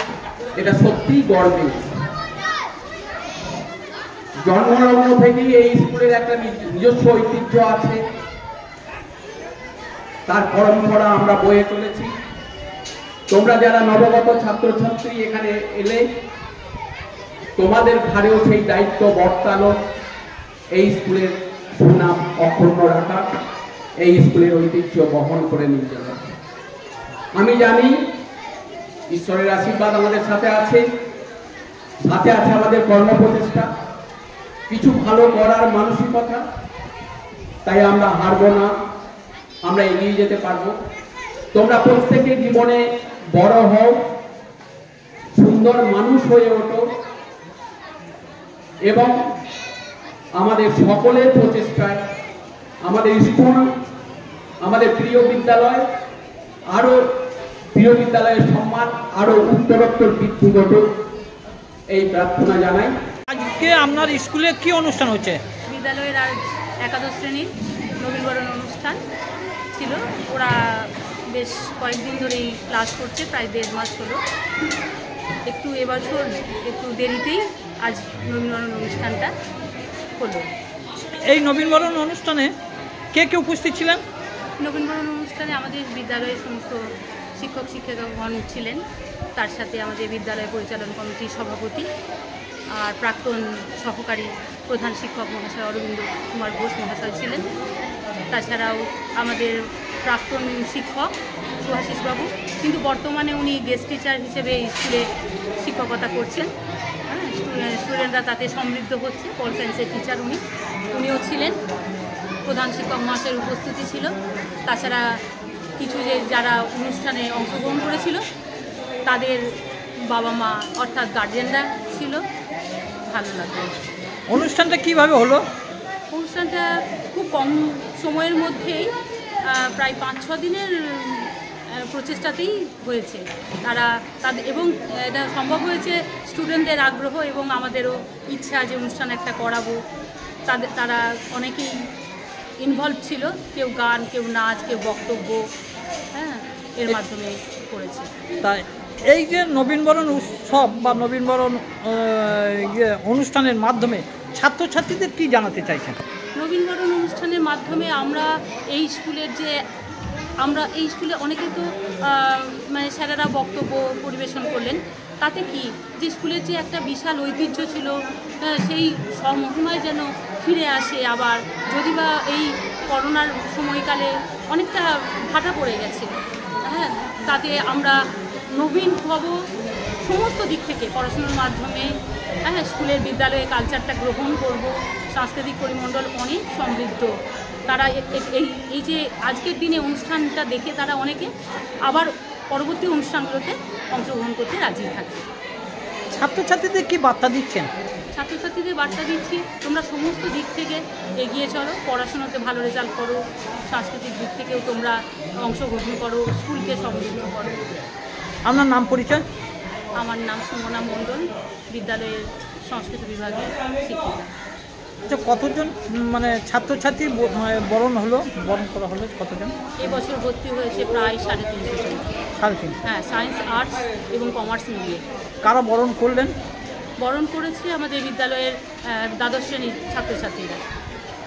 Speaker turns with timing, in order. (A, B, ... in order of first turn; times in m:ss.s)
0:00.6-0:01.9 A
0:04.5-0:08.0 A
0:10.3-0:12.1 A
0:13.3-0:16.0 A
0:17.6-0:19.7 A
0:20.8-0:23.2 A
0:24.0-0:26.3 A
0:27.3-0:27.9 A
0:29.1-0:30.8 A
0:32.0-0:33.7 A
0:34.7-0:36.4 A
0:37.7-0:38.7 A
0:39.6-0:40.8 A
0:41.5-0:42.8 A
0:43.4-0:44.0 A
0:45.4-0:46.8 A
0:48.9-0:49.1 A
0:50.4-0:52.0 A
0:52.8-0:53.7 A
0:54.6-0:55.8 A
0:56.7-0:57.0 A
0:57.7-1:00.9 A
1:01.9-1:02.9 A
1:03.3-1:05.4 B
1:05.7-1:09.0 C
1:09.7-1:14.2 C
1:15.5-1:19.3 C
1:20.2-1:20.5 C
1:21.2-1:22.5 B
1:23.1-1:24.0 B
1:24.6-1:26.8 C
1:27.4-1:28.8 C
1:29.4-1:31.9 C
1:32.8-1:37.4 C
1:38.3-1:45.1 C
1:45.6-1:46.5 C
1:47.1-1:50.4 C
1:50.9-1:51.6 C
1:52.5-1:54.1 C
1:54.7-1:55.1 C
1:55.8-1:58.2 C
1:59.1-1:59.5 C
2:00.1-2:02.2 C
2:03.1-2:03.9 C
2:04.3-2:05.5 B
2:06.1-2:08.9 C
2:09.5-2:19.8 C
2:20.5-2:21.9 C
2:22.6-2:25.4 C
2:26.1-2:28.1 C
2:28.4-2:36.0 B
2:36.4-2:39.6 C
2:40.4-2:56.1 C
2:56.6-2:58.0 C
2:58.5-2:59.4 C
3:00.0-3:07.1 C
3:07.7-3:11.3 C
3:11.9-3:15.2 C
3:16.1-3:17.7 B
3:18.1-3:27.6 C
3:28.4-3:29.2 B
3:30.0-3:34.3 C
3:35.1-3:39.5 B
3:39.8-3:42.1 C
3:42.4-3:42.8 B
3:42.8-3:45.0 C
3:45.4-3:46.3 B
3:47.0-3:50.6 C